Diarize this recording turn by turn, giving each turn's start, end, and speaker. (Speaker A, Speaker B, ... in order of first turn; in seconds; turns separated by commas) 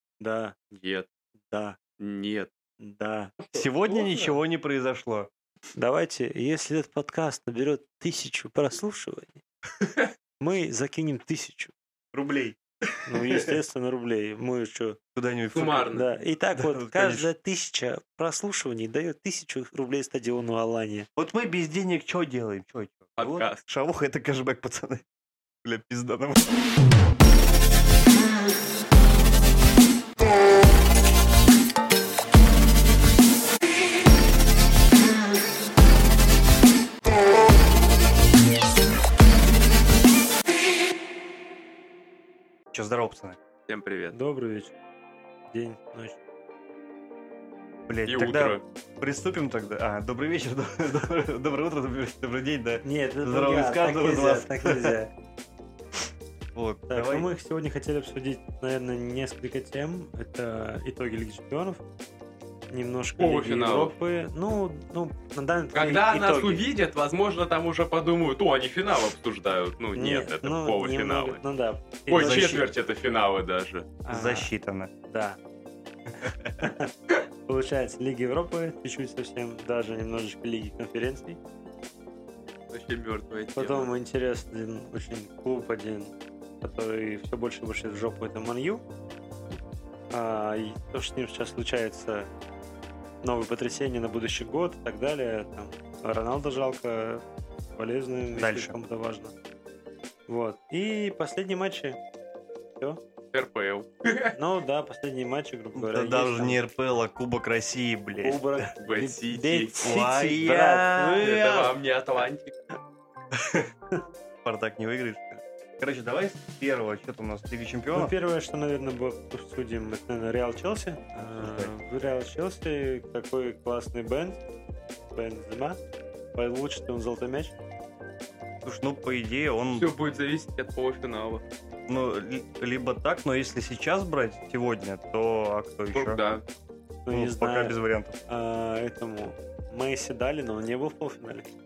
Speaker A: 0.2-0.6, Speaker B: 0.7-1.1, Speaker A: 1.5-1.8, Speaker B: 2.0-2.5, Speaker A: 2.8-3.3, Speaker B: 3.4-4.4, Speaker C: 3.5-5.3, Speaker A: 5.8-9.4, Speaker A: 10.4-11.7, Speaker C: 12.1-13.5, Speaker A: 13.1-15.0, Speaker C: 15.1-15.9, Speaker B: 15.5-16.1, Speaker A: 15.9-21.1, Speaker C: 16.5-17.3, Speaker C: 21.2-25.0, Speaker B: 23.2-23.6, Speaker C: 25.6-26.5, Speaker C: 42.7-43.4, Speaker B: 43.7-44.1, Speaker A: 44.1-44.7, Speaker A: 45.5-46.2, Speaker C: 47.9-54.9, Speaker B: 48.1-48.6, Speaker A: 52.8-55.1, Speaker C: 56.5-57.3, Speaker A: 56.9-61.8, Speaker A: 62.7-66.7, Speaker B: 63.2-63.9, Speaker B: 65.7-71.4, Speaker A: 69.9-72.6, Speaker B: 72.1-74.0, Speaker C: 72.1-72.6, Speaker A: 74.0-74.5, Speaker C: 74.1-74.9, Speaker A: 75.1-75.4, Speaker C: 76.1-76.6, Speaker A: 76.6-76.9, Speaker A: 77.5-81.4, Speaker B: 82.7-83.9, Speaker A: 83.5-88.8, Speaker A: 90.1-92.3, Speaker A: 93.2-97.2, Speaker A: 97.8-99.3, Speaker C: 98.3-98.7, Speaker A: 100.3-102.0, Speaker B: 103.3-104.3, Speaker A: 104.3-106.6, Speaker C: 105.7-108.7, Speaker A: 108.2-111.2, Speaker B: 108.8-109.7, Speaker C: 109.8-111.7, Speaker B: 111.2-112.6, Speaker C: 113.3-113.7, Speaker C: 114.4-118.1, Speaker A: 117.9-124.4, Speaker C: 121.4-121.7, Speaker A: 125.1-125.8, Speaker A: 126.3-127.5, Speaker C: 128.6-129.9, Speaker B: 129.8-131.4, Speaker C: 131.9-136.2, Speaker B: 135.9-136.4, Speaker A: 137.0-137.8, Speaker C: 137.1-138.2, Speaker A: 138.3-141.4